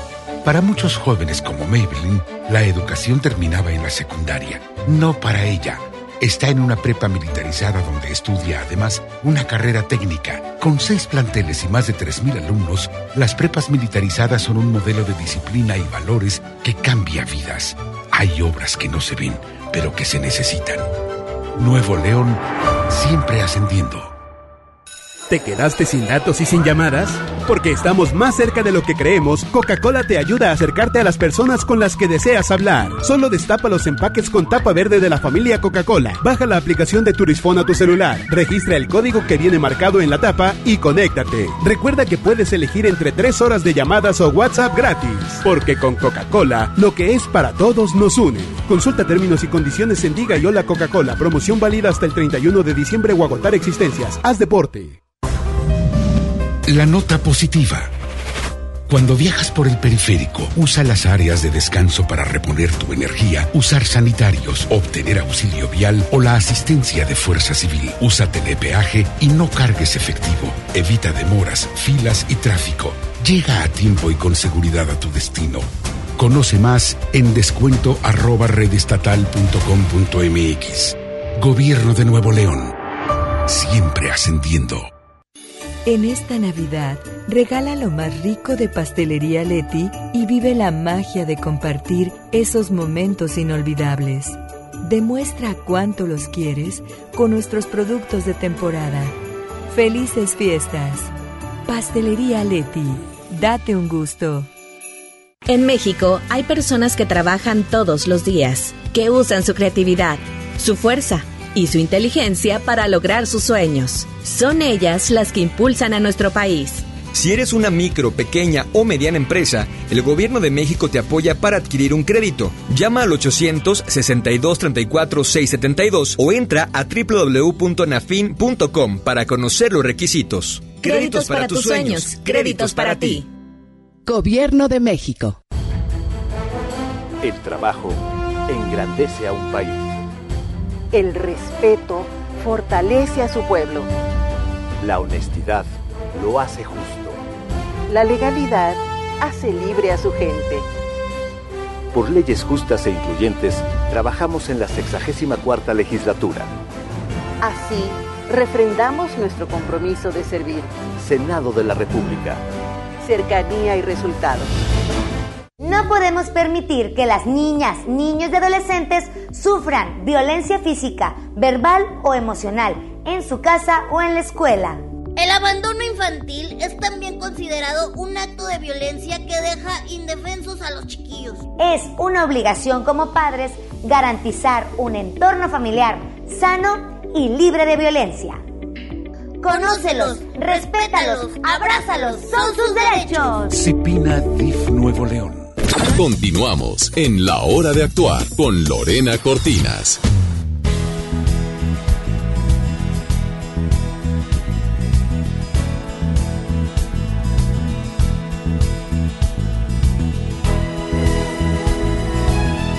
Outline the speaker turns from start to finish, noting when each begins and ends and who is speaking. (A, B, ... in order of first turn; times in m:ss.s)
0:00.4-0:20.8 A
0:21.6-0:24.1 A
0:25.3-0:55.0 B
0:56.7-0:57.9 A
0:58.9-1:15.7 A
1:16.2-1:22.7 A
1:23.5-1:24.9 A
1:25.8-1:39.1 C
1:39.7-1:41.1 C
1:41.7-1:44.5 C
1:45.5-1:56.8 D
1:57.1-2:13.2 E
2:10.8-2:13.2 D
2:17.2-2:18.0 F
2:18.5-2:19.8 F
2:20.9-2:23.9 G
2:24.8-2:27.2 F
2:27.9-2:30.6 G
2:31.9-2:36.5 F
2:37.4-2:40.7 G
2:41.0-2:42.4 F
2:43.0-2:44.5 G
2:45.6-2:54.8 H
2:55.2-3:01.4 I
3:01.6-3:08.4 H
3:09.4-3:13.5 H
3:09.5-3:11.0 I
3:13.5-3:15.5 A
3:15.9-3:20.0 J